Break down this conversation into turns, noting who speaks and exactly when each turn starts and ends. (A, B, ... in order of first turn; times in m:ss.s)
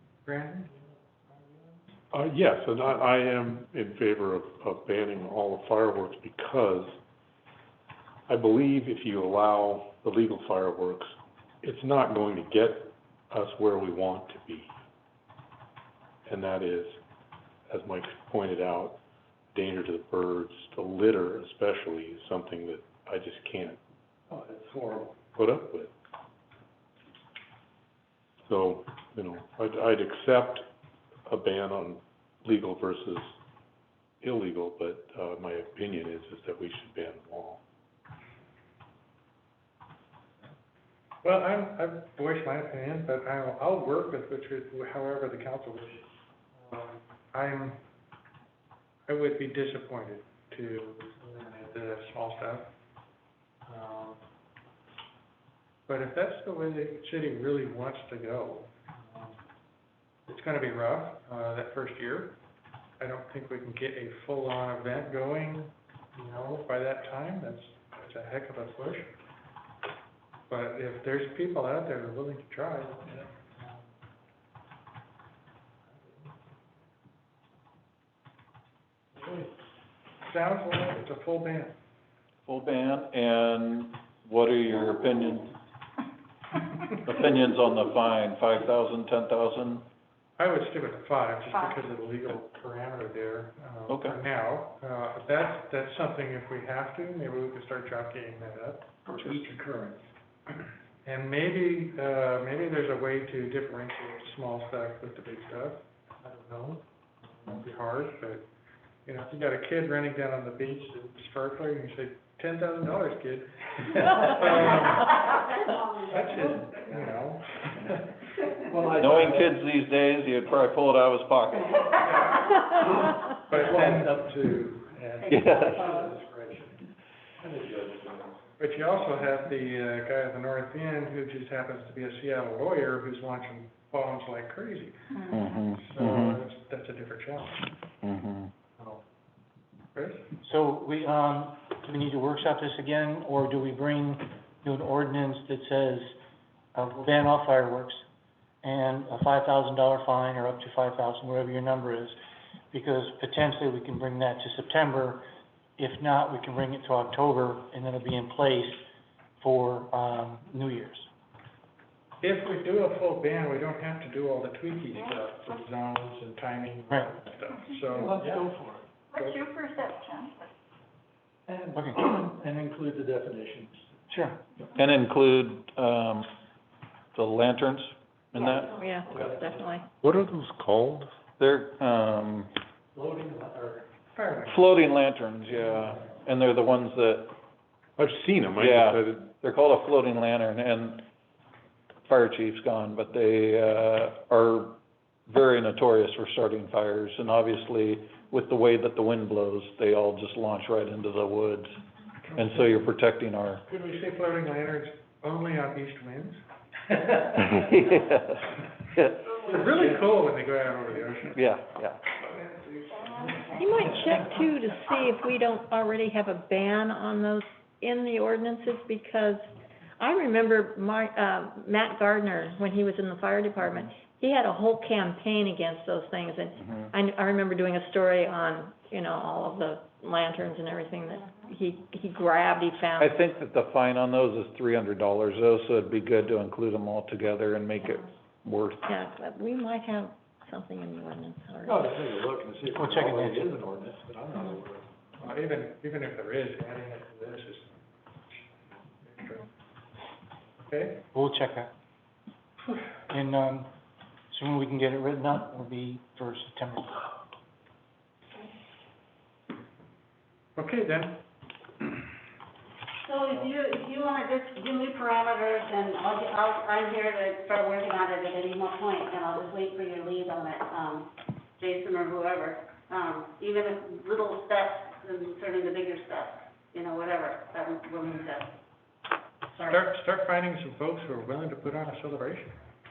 0:00.2-0:01.9 A
0:02.1-0:07.0 B
0:08.3-0:14.7 B
0:16.3-0:17.0 B
0:17.7-0:19.0 B
0:19.5-0:23.8 B
0:24.3-0:25.2 C
0:25.4-0:25.9 B
0:28.5-0:30.7 B
0:31.3-0:33.3 B
0:34.2-0:37.6 B
0:41.2-0:46.1 A
0:46.6-0:47.8 A
0:49.1-0:52.7 A
0:53.7-0:54.2 A
0:55.9-0:59.4 A
1:00.3-1:02.4 A
1:03.0-1:09.2 A
1:10.5-1:13.9 A
1:15.9-1:16.3 A
1:19.2-1:19.5 A
1:20.2-1:21.7 A
1:22.5-1:25.6 D
1:27.0-1:29.8 D
1:30.4-1:39.0 A
1:33.9-1:34.2 D
1:39.1-1:40.0 C
1:39.2-1:39.4 D
1:41.0-1:48.5 A
1:49.1-1:55.2 A
1:55.1-1:56.6 E
1:56.1-1:57.9 A
1:58.7-1:59.5 C
1:59.0-2:02.0 D
2:02.0-2:04.5 A
2:03.5-2:06.9 C
2:05.2-2:06.1 E
2:05.3-2:05.8 D
2:07.4-2:08.4 C
2:08.6-2:17.8 A
2:15.3-2:16.4 D
2:18.0-2:18.5 D
2:18.8-2:19.0 A
2:20.0-2:20.3 A
2:20.4-2:26.2 F
2:26.8-2:28.0 F
2:28.6-2:32.2 F
2:32.7-2:35.2 F
2:35.8-2:38.8 F
2:39.4-2:41.1 F
2:42.2-2:48.4 A
2:46.9-2:47.2 F
2:48.0-2:48.8 C
2:51.5-2:54.0 C
2:51.8-2:52.1 F
2:54.1-2:54.4 F
2:54.8-2:56.3 D
2:57.2-2:58.8 D
2:58.7-2:59.9 G
2:59.1-2:59.7 C
3:00.0-3:01.1 B
3:01.4-3:02.6 D
3:03.0-3:03.9 C
3:04.2-3:04.6 A
3:04.5-3:07.3 D
3:08.0-3:09.2 B
3:08.6-3:11.1 D
3:12.1-3:21.8 D
3:22.3-3:23.6 D
3:22.3-3:22.6 A
3:23.7-3:26.4 A
3:27.3-3:29.4 D
3:29.4-3:31.4 A
3:31.3-3:32.0 D
3:33.6-3:39.4 G
3:40.0-3:53.2 G
3:53.0-3:58.8 D
3:58.9-4:02.0 G
4:01.6-4:04.9 C
4:02.7-4:03.6 F
4:05.2-4:09.5 A
4:10.7-4:11.0 A
4:11.1-4:11.7 F
4:13.1-4:13.7 F
4:14.3-4:17.0 F
4:20.6-4:21.2 A
4:23.0-4:38.5 E
4:39.5-4:39.8 E
4:39.7-4:42.6 A